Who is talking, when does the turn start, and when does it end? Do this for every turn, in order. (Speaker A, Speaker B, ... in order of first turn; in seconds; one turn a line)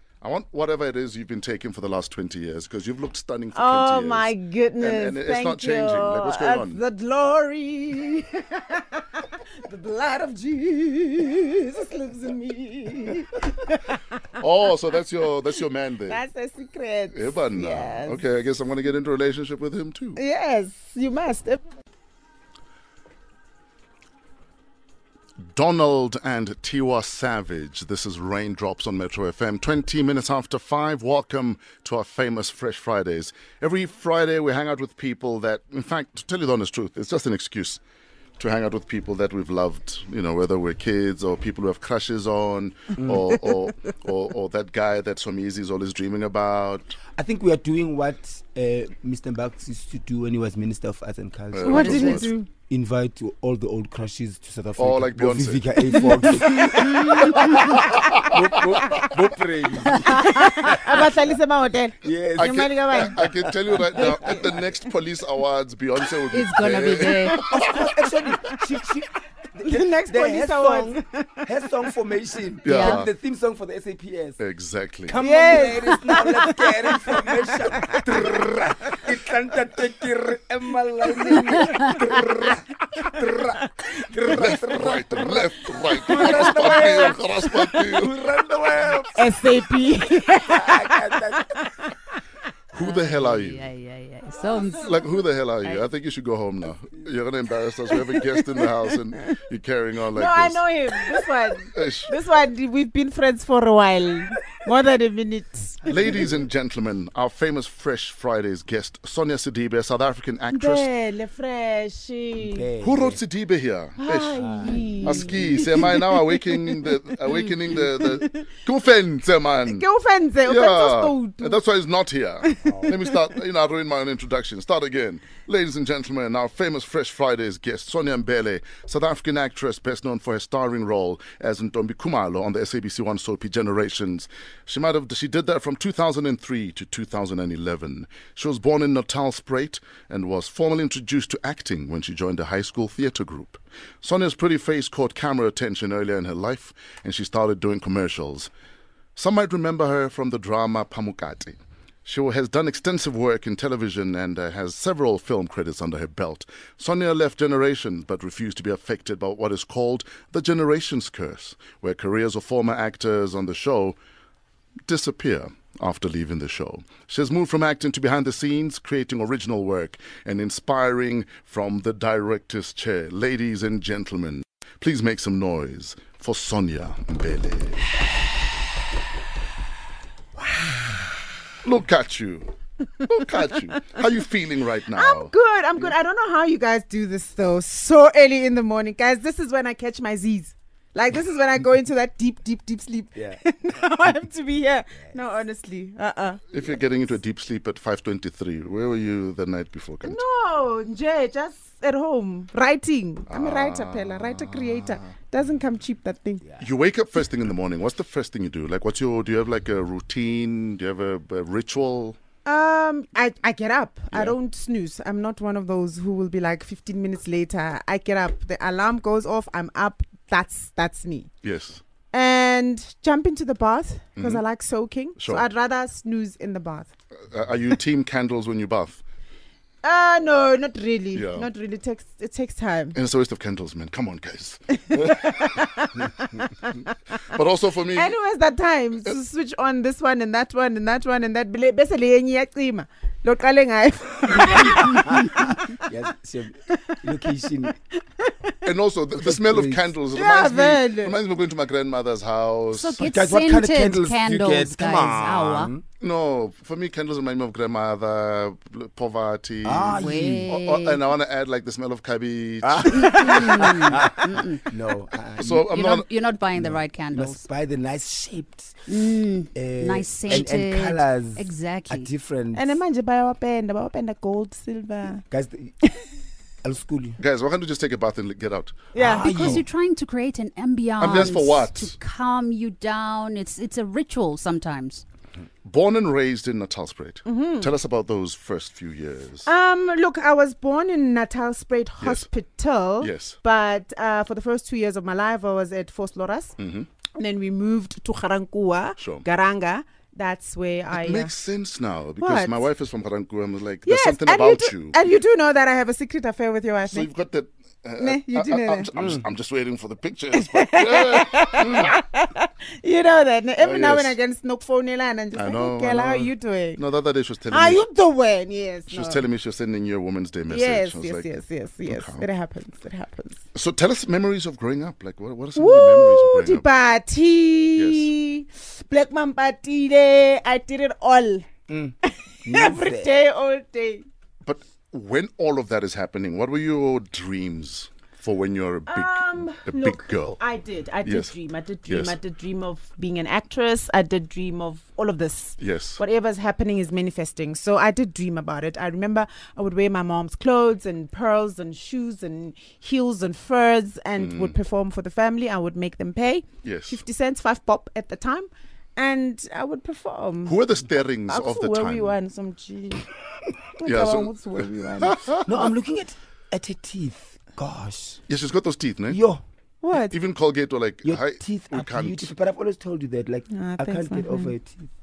Speaker A: 0.2-6.8
Speaker B: 3.5-14.0
Speaker A: 14.4-16.2
Speaker B: 16.1-18.2
Speaker A: 17.1-20.2
Speaker B: 20.1-21.6
Speaker A: 25.5-37.8
Speaker A: 38.4-47.0
Speaker C: 43.0-43.3
Speaker C: 47.1-61.2
Speaker A: 51.5-52.3
Speaker B: 51.6-52.5
Speaker A: 54.8-56.3
Speaker D: 56.7-57.3
Speaker A: 57.2-59.1
Speaker B: 60.0-63.2
Speaker C: 62.0-64.2
Speaker A: 62.4-67.9
Speaker B: 63.9-64.6
Speaker D: 66.3-67.7
Speaker C: 67.3-74.4
Speaker B: 69.6-71.5
Speaker A: 72.6-73.1
Speaker B: 72.7-73.0
Speaker A: 74.4-75.2
Speaker C: 75.0-89.6
Speaker B: 75.2-78.0
Speaker A: 84.3-88.1
Speaker B: 89.1-92.2
Speaker C: 90.5-91.6
Speaker A: 92.7-93.7
Speaker D: 92.8-95.1
Speaker A: 94.7-100.6
Speaker B: 100.1-106.3
Speaker A: 101.7-102.1
Speaker A: 105.8-110.9
Speaker C: 106.0-106.4
Speaker B: 110.5-112.7
Speaker C: 112.3-113.2
Speaker A: 112.8-119.8
Speaker B: 114.0-118.3
Speaker C: 114.3-115.9
Speaker B: 119.7-121.6
Speaker A: 120.4-148.5
Speaker B: 122.4-123.0
Speaker C: 122.6-123.0
Speaker A: 149.2-163.9
Speaker A: 164.9-177.9
Speaker B: 180.4-181.2
Speaker A: 181.6-182.5
Speaker A: 183.0-185.9
Speaker B: 183.4-184.0
Speaker B: 184.9-196.8
Speaker C: 193.1-193.4
Speaker A: 196.5-200.2
Speaker B: 200.0-206.4
Speaker A: 203.3-205.1
Speaker A: 206.6-212.2
Speaker B: 212.4-221.3
Speaker A: 221.4-221.8
Speaker B: 222.1-226.9
Speaker A: 224.2-224.4
Speaker A: 225.2-225.4
Speaker A: 227.3-229.0
Speaker B: 229.8-233.0
Speaker A: 231.1-231.5
Speaker A: 232.9-236.2
Speaker B: 234.9-236.9
Speaker A: 237.2-238.1
Speaker B: 237.9-245.8
Speaker C: 244.4-247.8
Speaker B: 247.7-248.6
Speaker A: 248.6-253.2
Speaker C: 249.1-249.9
Speaker B: 250.1-251.2
Speaker D: 252.7-255.7
Speaker C: 253.0-255.8
Speaker A: 256.0-263.9
Speaker C: 259.6-260.6
Speaker D: 259.9-261.0
Speaker C: 262.6-265.7
Speaker D: 262.8-264.6
Speaker A: 265.4-266.1
Speaker D: 265.5-267.4
Speaker C: 266.6-268.9
Speaker D: 268.9-272.1
Speaker C: 269.5-272.7
Speaker B: 272.5-275.2
Speaker C: 275.3-275.8
Speaker C: 276.6-277.2
Speaker A: 277.2-278.9
Speaker B: 278.9-279.6
Speaker C: 278.9-279.6
Speaker D: 279.0-285.0
Speaker A: 281.0-281.9
Speaker A: 285.6-289.5
Speaker B: 287.2-287.7
Speaker B: 289.4-296.6
Speaker A: 292.0-292.3
Speaker A: 293.0-293.4
Speaker A: 296.6-296.9
Speaker B: 297.1-301.3
Speaker A: 299.0-299.2
Speaker A: 300.9-305.0
Speaker B: 302.2-302.6
Speaker B: 303.9-307.1
Speaker A: 306.9-312.0
Speaker B: 308.0-308.9
Speaker B: 310.3-316.8
Speaker A: 313.6-314.1
Speaker A: 315.3-317.8
Speaker B: 317.5-319.2
Speaker A: 318.9-321.3
Speaker B: 320.5-323.4
Speaker A: 321.9-322.2
Speaker A: 323.5-326.6
Speaker B: 325.6-331.4
Speaker A: 327.8-328.1
Speaker C: 331.7-333.1
Speaker B: 332.0-334.0
Speaker A: 334.4-340.4
Speaker B: 338.9-360.6
Speaker A: 341.0-341.3
Speaker A: 341.9-342.1
Speaker A: 345.6-346.0
Speaker A: 354.2-354.5
Speaker A: 356.6-357.0
Speaker A: 360.4-362.1
Speaker B: 361.2-363.1
Speaker B: 363.8-365.2
Speaker A: 363.8-365.7
Speaker C: 365.4-368.2
Speaker A: 368.3-369.2
Speaker C: 369.1-369.4
Speaker B: 369.8-370.2
Speaker A: 370.1-372.3
Speaker C: 371.0-374.9
Speaker B: 373.5-374.6